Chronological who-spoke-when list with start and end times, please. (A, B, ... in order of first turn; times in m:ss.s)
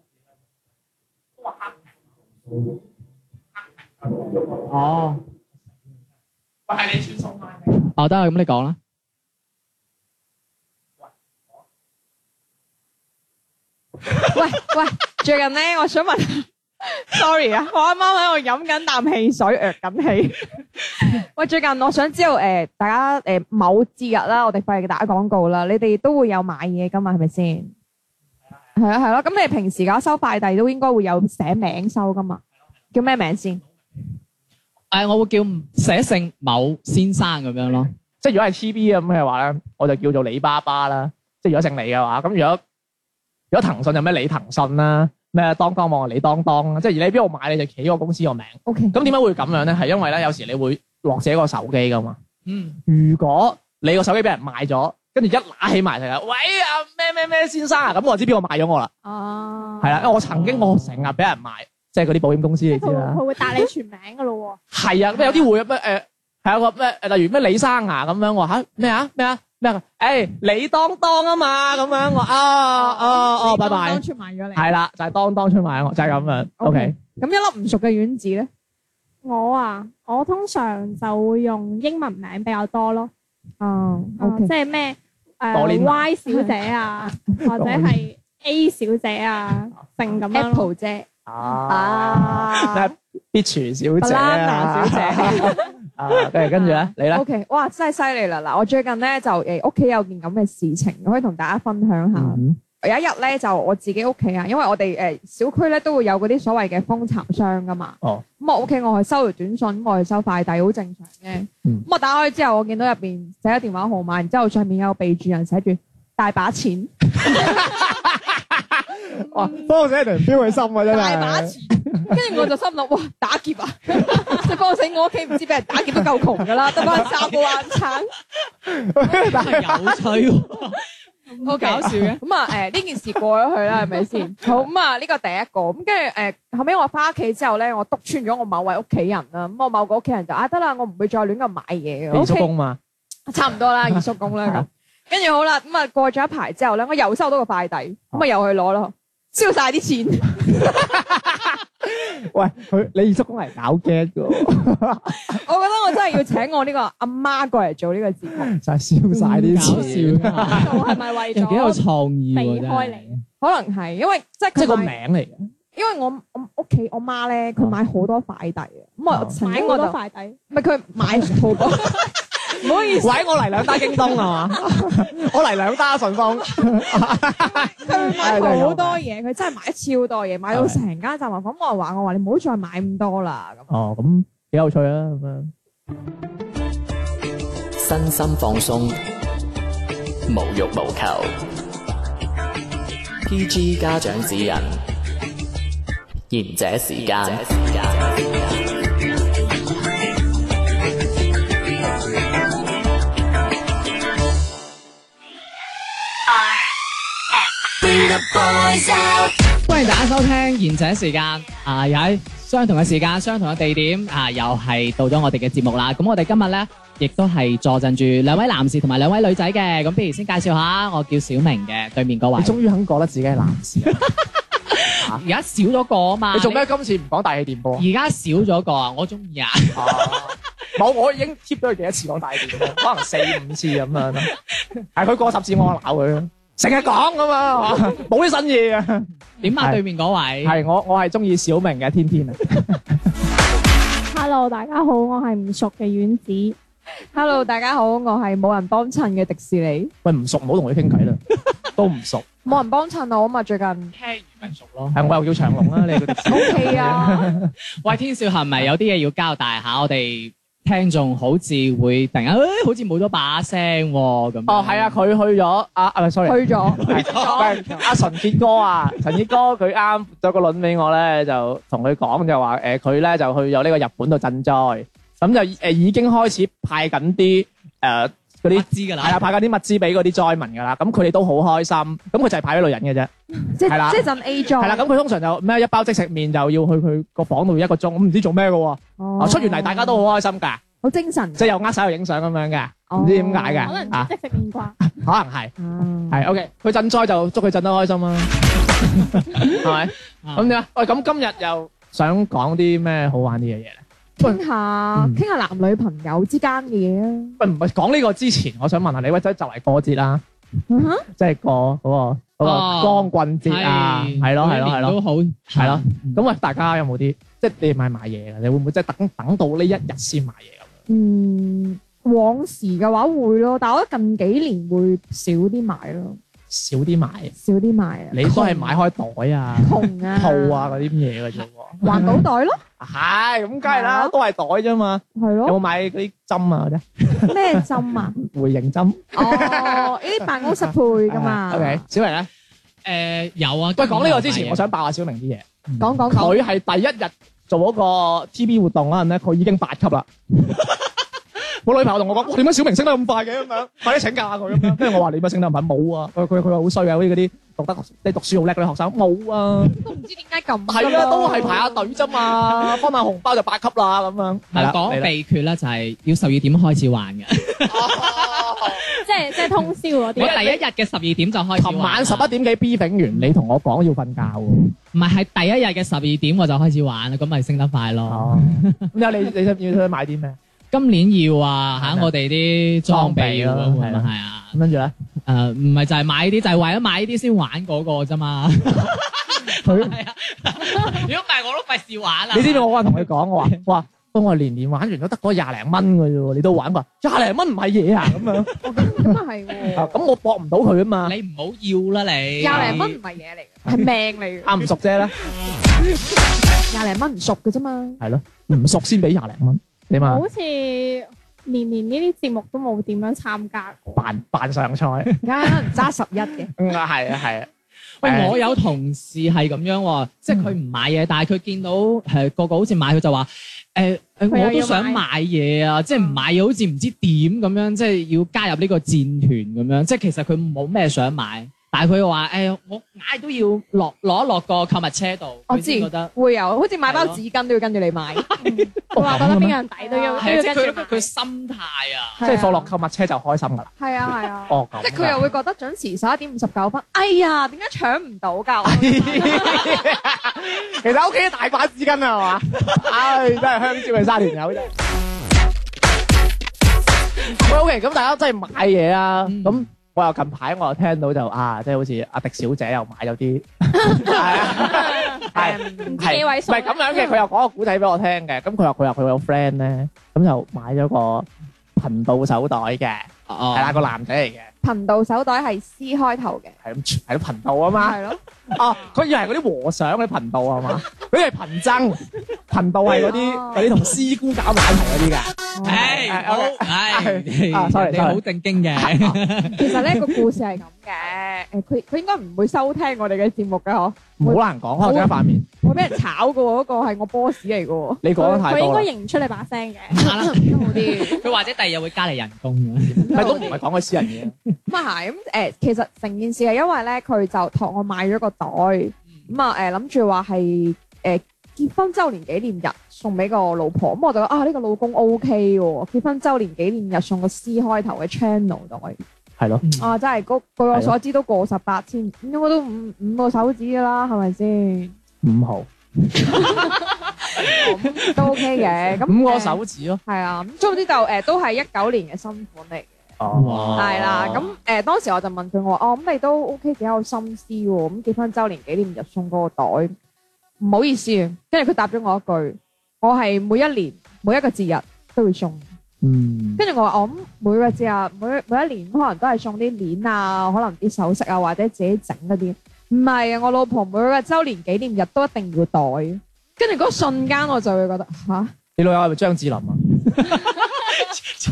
0:04.1-0:04.7 A
0:04.7-0:05.2 B
0:06.7-0:07.9 A
0:07.9-0:08.8 B
0:14.2-0:20.4 C
0:21.0-0:27.7 C
0:28.8-0:32.4 C
0:32.9-0:33.6 C
0:34.9-0:37.9 B
0:38.2-0:42.6 A
0:43.5-0:52.2 A
0:48.7-0:49.0 C
0:52.5-0:52.8 B
0:52.9-0:58.9 A
0:59.0-1:00.1 C
0:59.8-1:03.2 A
1:02.7-1:04.6 D
1:04.7-1:14.0 A
1:12.7-1:14.7 C
1:14.6-1:17.0 A
1:16.2-1:18.5 C
1:19.2-1:23.1 D
1:23.6-1:24.5 C
1:24.2-1:30.7 D
1:25.5-1:26.1 A
1:26.3-1:26.6 C
1:27.4-1:28.0 A
1:30.3-1:32.9 C
1:31.3-1:37.2 A
1:34.0-1:35.7 C
1:36.4-1:57.9 C
1:42.2-1:42.6 A
1:57.2-2:02.4 A
2:00.8-2:08.1 C
2:04.1-2:04.4 A
2:05.9-2:07.1 A
2:08.7-2:10.1 A
2:09.0-2:12.2 B
2:11.4-2:22.5 C
2:22.1-2:22.8 A
2:23.3-2:30.9 C
2:23.9-2:24.7 A
2:30.6-2:35.4 A
2:35.1-2:38.5 C
2:38.3-2:40.9 A
2:39.2-2:39.8 C
2:39.2-2:43.2 B
2:40.4-2:41.8 C
2:40.5-2:41.8 D
2:42.3-2:43.2 D
2:43.4-2:45.0 C
2:44.6-2:45.4 A
2:45.7-2:50.0 C
2:49.1-2:49.4 A
2:49.4-2:50.4 D
2:50.5-2:54.6 C
2:52.9-2:59.0 A
2:57.8-3:03.7 C
3:00.5-3:00.8 A
3:03.7-3:05.5 A
3:07.8-3:09.0 E
3:10.3-3:11.3 E
3:13.2-3:14.8 E
3:16.3-3:18.6 E
3:27.9-3:29.3 E
3:29.5-3:42.6 B
3:42.4-3:44.1 A
3:44.8-3:46.7 B
3:46.3-3:47.9 A
3:47.8-3:50.3 B
3:49.7-3:54.3 A
3:55.0-3:59.8 A
3:59.4-4:00.6 B
4:00.4-4:03.0 A
4:04.1-4:06.6 D
4:07.1-4:09.9 C
4:10.0-4:12.3 A
4:12.4-4:13.9 C
4:14.0-4:15.0 B
4:14.9-4:17.5 A
4:15.5-4:16.9 B
4:16.3-4:17.3 C
4:17.8-4:25.0 B
4:24.5-4:43.1 A
4:26.2-4:27.8 C
4:26.8-4:27.6 B
4:38.5-4:39.3 B
4:43.5-4:44.9 C
4:43.6-4:50.6 A
4:49.0-4:50.1 C
4:50.8-4:51.5 C
4:51.4-4:54.1 A
4:52.9-4:53.9 C
4:53.6-4:54.8 D
4:54.8-4:55.5 A
4:55.6-4:56.2 C
4:56.1-4:58.3 A
4:59.1-5:04.4 A
5:00.2-5:00.6 B
5:04.2-5:07.4 C
5:07.4-5:10.2 A
5:10.7-5:11.1 C
5:11.1-5:15.0 A
5:12.4-5:16.2 B
5:15.6-5:20.7 A
5:20.9-5:26.2 C
5:26.5-5:27.3 A
5:27.4-5:28.7 C
5:28.1-5:32.3 A
5:29.6-5:30.8 C
5:31.8-5:32.6 C
5:32.8-5:42.3 A
5:33.6-5:34.1 C
5:35.2-5:35.6 C
5:37.2-5:38.2 C
5:39.1-5:41.8 C
5:42.8-5:44.6 B
5:43.8-5:45.5 A
5:45.8-5:46.4 C
5:46.1-5:50.9 A
5:51.6-5:59.8 A
5:59.7-6:01.9 C
6:00.7-6:05.1 A
6:04.5-6:12.4 B
6:07.7-6:08.8 A
6:09.0-6:10.6 D
6:11.6-6:14.7 A
6:14.9-6:18.9 B
6:18.1-6:20.4 A
6:20.7-6:24.6 B
6:21.8-6:22.1 A
6:22.9-6:24.9 A
6:25.3-6:33.6 B
6:29.6-6:30.0 A
6:32.3-6:39.2 A
6:38.6-6:40.0 C
6:39.7-6:41.2 A
6:41.0-6:43.0 B
6:42.4-6:44.5 C
6:42.5-6:42.8 A
6:44.4-6:45.1 A
6:46.7-6:48.0 C
6:48.0-6:50.2 A
6:50.0-6:54.0 D
6:54.0-6:55.1 A
6:55.2-6:56.5 C
6:56.6-6:57.5 A
6:58.0-7:16.1 B
6:58.0-6:58.3 A
7:04.3-7:05.0 D
7:15.5-7:18.7 C
7:16.9-7:17.2 B
7:18.4-7:21.1 D
7:18.9-7:19.6 A
7:19.8-7:20.4 C
7:20.2-7:22.2 B
7:22.2-7:22.7 C
7:22.2-7:23.7 A
7:23.8-7:29.7 C
7:24.5-7:25.3 A
7:28.6-7:34.7 A
7:37.2-7:54.5 A
7:39.3-7:39.6 B
7:43.9-7:45.3 D
7:44.6-7:46.2 C
7:45.9-7:47.2 D
7:53.3-7:53.8 B
7:54.6-7:56.6 C
7:56.6-8:08.2 A
7:57.8-7:58.2 C
8:02.9-8:03.7 C
8:05.5-8:06.0 C
8:05.6-8:10.2 B
8:08.7-8:09.2 A
8:09.5-8:18.0 C
8:14.2-8:15.5 A
8:18.0-8:18.9 A
8:18.2-8:20.1 D
8:19.9-8:23.2 B
8:20.1-8:21.3 C
8:22.9-8:24.3 A
8:23.1-8:23.6 C
8:24.7-8:39.0 C
8:39.4-8:39.8 A
8:39.8-8:44.9 C
8:45.2-8:45.7 A
8:46.2-8:53.1 C
8:46.2-8:50.0 A
8:53.2-8:54.4 A
8:53.3-8:54.5 B
8:53.8-8:59.9 C
9:00.6-9:05.7 C
9:06.0-9:06.6 A
9:06.6-9:18.5 C
9:18.8-9:20.9 A